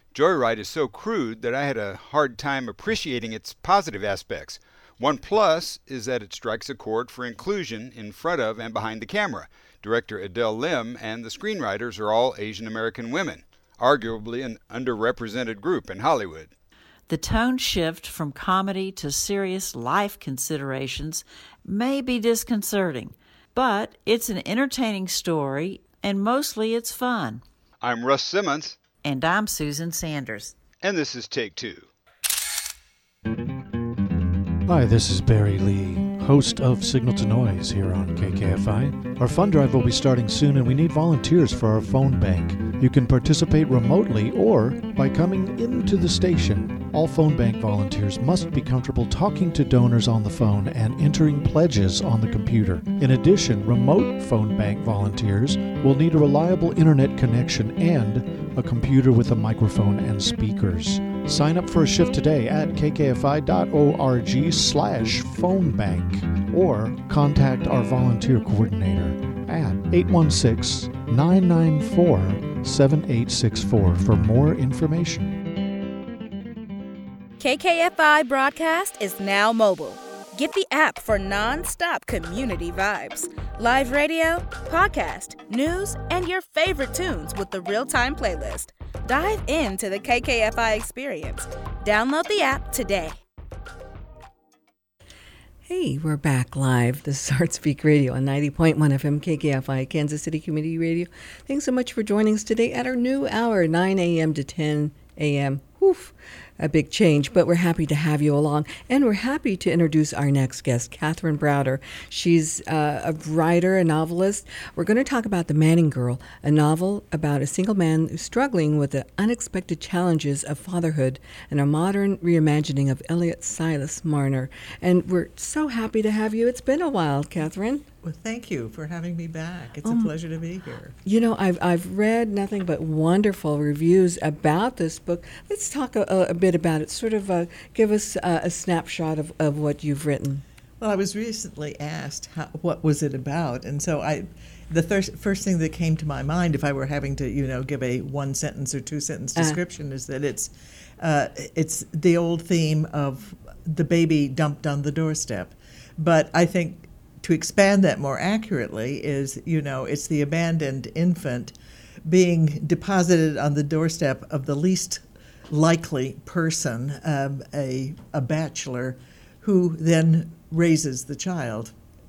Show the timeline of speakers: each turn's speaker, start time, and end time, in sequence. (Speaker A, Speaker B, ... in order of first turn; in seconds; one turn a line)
Speaker A: 0.1-16.5
Speaker B: 17.1-27.4
Speaker A: 27.8-28.8
Speaker B: 29.0-30.6
Speaker A: 30.8-31.9
Speaker C: 34.7-75.3
Speaker D: 77.4-93.2
Speaker E: 95.7-127.9
Speaker F: 128.0-130.9
Speaker E: 129.8-130.1
Speaker E: 131.1-140.4
Speaker F: 140.8-161.6
Speaker F: 162.1-171.7